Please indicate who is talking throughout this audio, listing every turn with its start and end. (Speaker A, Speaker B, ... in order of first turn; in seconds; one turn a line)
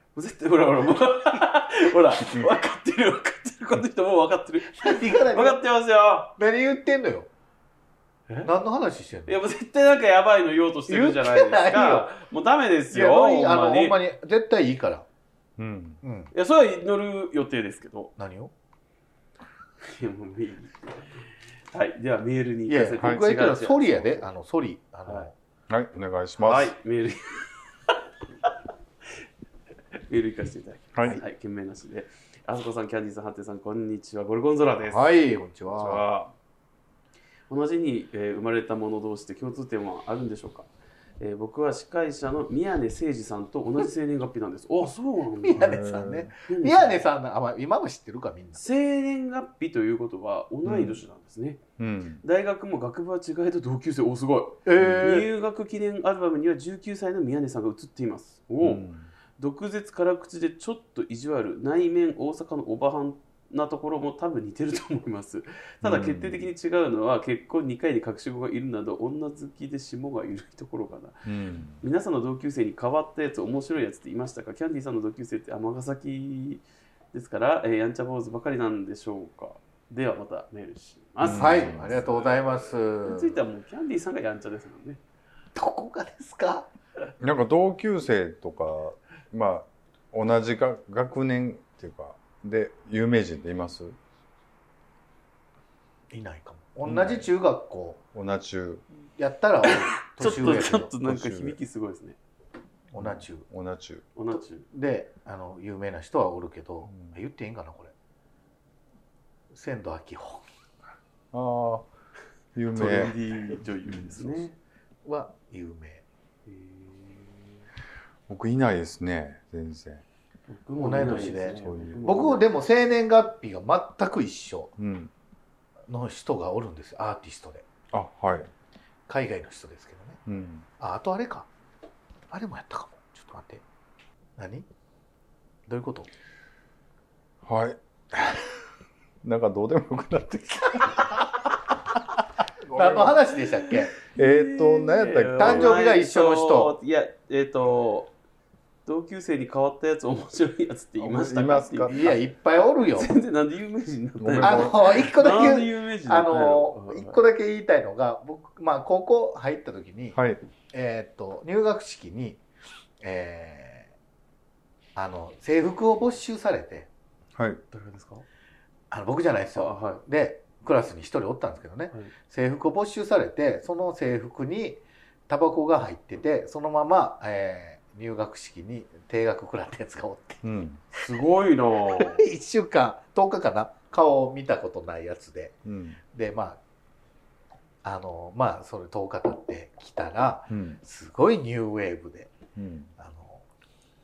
Speaker A: 0.1-6.4
Speaker B: 2.2-2.5
Speaker B: 4.7-5.6
Speaker B: 6.4-7.3
Speaker B: 8.4-9.4
Speaker A: 9.3-14.0
Speaker B: 10.9-12.1
Speaker B: 12.9-15.1
Speaker C: 15.6-16.0
Speaker B: 16.0-16.3
Speaker A: 16.3-18.1
Speaker B: 18.2-18.5
Speaker A: 19.8-21.1
Speaker A: 21.7-24.2
Speaker B: 22.7-25.3
Speaker C: 23.0-23.4
Speaker C: 25.7-26.7
Speaker A: 26.4-27.5
Speaker A: 30.1-35.1
Speaker C: 30.9-31.2
Speaker B: 34.9-36.0
Speaker C: 35.8-36.3
Speaker A: 37.5-40.7
Speaker A: 41.2-45.8
Speaker B: 45.4-48.6
Speaker C: 45.5-46.3
Speaker A: 46.5-47.0
Speaker A: 48.5-51.6
Speaker C: 50.6-51.0
Speaker C: 51.8-52.2
Speaker A: 52.2-58.9
Speaker B: 54.6-55.3
Speaker C: 54.8-55.1
Speaker C: 58.6-59.1
Speaker A: 59.4-71.3
Speaker C: 65.8-66.5
Speaker C: 71.3-71.8
Speaker A: 71.8-85.0
Speaker C: 81.2-82.0
Speaker B: 81.3-83.4
Speaker B: 85.5-86.7
Speaker C: 87.2-94.0
Speaker B: 96.1-98.0
Speaker C: 96.8-97.3
Speaker C: 98.1-98.8
Speaker B: 99.2-100.9
Speaker A: 99.6-102.2
Speaker C: 100.2-101.6
Speaker B: 102.9-103.5
Speaker C: 103.0-104.0
Speaker A: 104.2-104.7
Speaker B: 104.7-107.9
Speaker C: 106.9-107.2
Speaker B: 109.5-110.5
Speaker C: 111.3-111.9
Speaker C: 112.5-113.2
Speaker A: 112.7-114.6
Speaker B: 115.0-116.0
Speaker A: 116.5-117.4
Speaker C: 118.3-120.0
Speaker A: 120.5-122.5
Speaker B: 120.8-124.7
Speaker C: 120.9-122.3
Speaker C: 124.8-125.1
Speaker B: 125.9-127.7
Speaker C: 127.9-128.5
Speaker B: 129.1-130.2
Speaker C: 130.3-130.7
Speaker B: 130.8-131.5
Speaker B: 132.3-133.6
Speaker B: 134.4-134.7
Speaker B: 135.7-136.1
Speaker C: 137.4-138.6
Speaker C: 139.2-141.5
Speaker C: 142.6-143.2
Speaker B: 142.7-144.0
Speaker C: 144.1-145.8
Speaker A: 144.2-148.1
Speaker B: 145.4-146.8
Speaker A: 148.9-152.1
Speaker C: 151.0-152.2
Speaker B: 151.9-153.1
Speaker A: 152.9-157.2
Speaker C: 154.2-155.1
Speaker B: 154.4-160.2
Speaker C: 160.1-160.4
Speaker B: 160.7-162.4
Speaker B: 163.0-163.9
Speaker B: 164.9-166.9
Speaker C: 167.4-167.6
Speaker A: 167.7-168.3
Speaker B: 168.9-180.4
Speaker A: 169.6-170.0
Speaker C: 180.4-180.8
Speaker A: 180.9-182.2
Speaker B: 181.8-185.6
Speaker C: 185.7-186.0
Speaker B: 186.1-186.6
Speaker B: 187.8-192.3
Speaker C: 190.5-190.8
Speaker C: 192.6-192.9
Speaker B: 193.0-193.4